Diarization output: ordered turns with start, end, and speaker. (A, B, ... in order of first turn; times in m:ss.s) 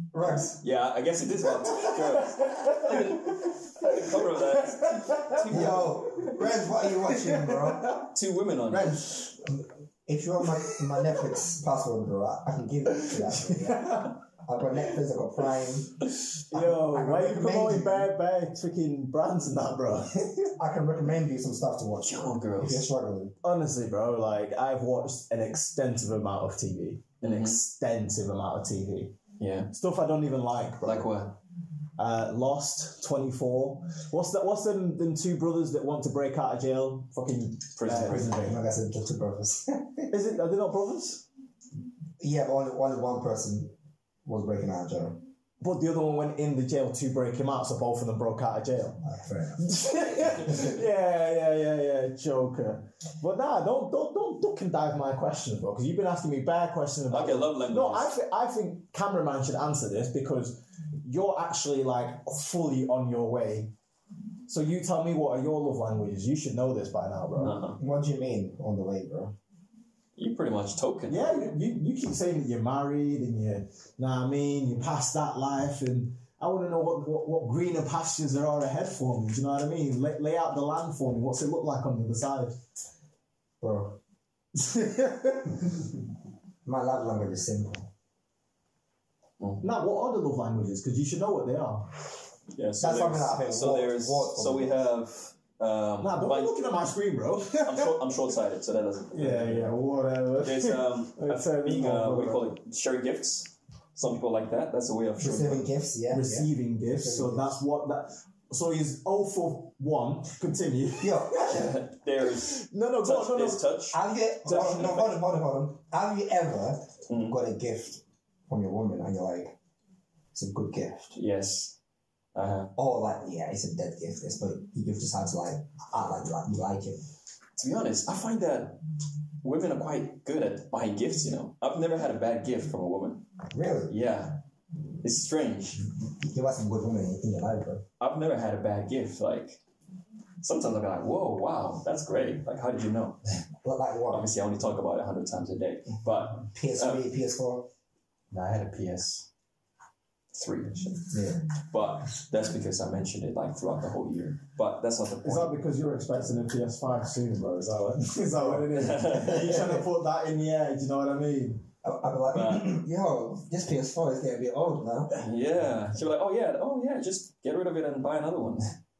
0:00.1-0:00.6 A
0:00.2-0:06.0 B
0:01.6-0:01.9 A
0:02.7-0:03.0 C
0:05.1-0:08.0 C
0:05.5-0:08.0 A
0:08.1-0:09.0 B
0:08.7-0:18.1 A
0:10.6-0:11.2 C
0:13.0-0:14.1 C
0:16.5-0:20.5 C
0:20.6-0:23.3 A
0:22.0-0:22.9 B
0:23.4-0:29.2 C
0:27.2-0:27.6 B
0:29.4-0:29.7 B
0:29.7-0:31.1 C
0:30.8-0:31.4 B
0:32.0-0:38.6 C
0:37.8-0:38.4 B
0:37.9-0:40.1 A
0:40.1-0:41.2 C
0:42.2-0:43.7 A
0:44.2-0:45.2 A
0:45.6-0:49.0 C
0:49.0-0:49.8 A
0:49.6-1:03.7 C
0:57.1-0:58.2 B
1:04.5-1:07.6 C
1:07.4-1:07.8 B
1:07.8-1:09.3 A
1:10.2-1:11.4 B
1:11.1-1:22.6 C
1:23.6-1:24.0 A
1:24.5-1:25.5 C
1:26.6-1:27.9 A
1:29.4-1:29.6 B
1:29.6-1:31.9 C
1:32.5-1:36.6 B
1:32.8-1:34.9 A
1:36.0-1:37.9 C
1:37.6-1:39.7 B
1:39.1-1:42.5 C
1:40.4-1:45.7 B
1:45.2-1:47.6 A
1:46.1-1:51.4 C
1:51.0-1:51.8 A
1:51.4-1:55.2 B
1:52.2-1:53.6 C
1:53.9-1:59.5 A
1:57.1-1:57.4 B
2:00.3-2:01.1 A
2:01.1-2:01.8 B
2:02.3-2:02.7 B
2:02.8-2:07.0 A
2:07.6-2:08.8 B
2:09.4-2:13.3 B
2:13.5-2:13.9 A
2:13.9-2:14.4 B
2:15.0-2:15.8 B
2:16.2-2:17.8 A
2:18.0-2:19.6 B
2:20.4-2:23.2 B
2:23.6-2:24.3 A
2:24.1-2:27.0 B
2:26.4-2:27.7 A
2:28.3-2:29.3 B
2:30.3-2:35.6 B
2:31.1-2:31.4 A
2:35.2-2:41.6 C
2:38.7-2:39.7 B
2:39.2-2:39.8 A
2:41.8-2:45.2 A
2:42.3-2:42.7 B
2:45.2-2:48.7 B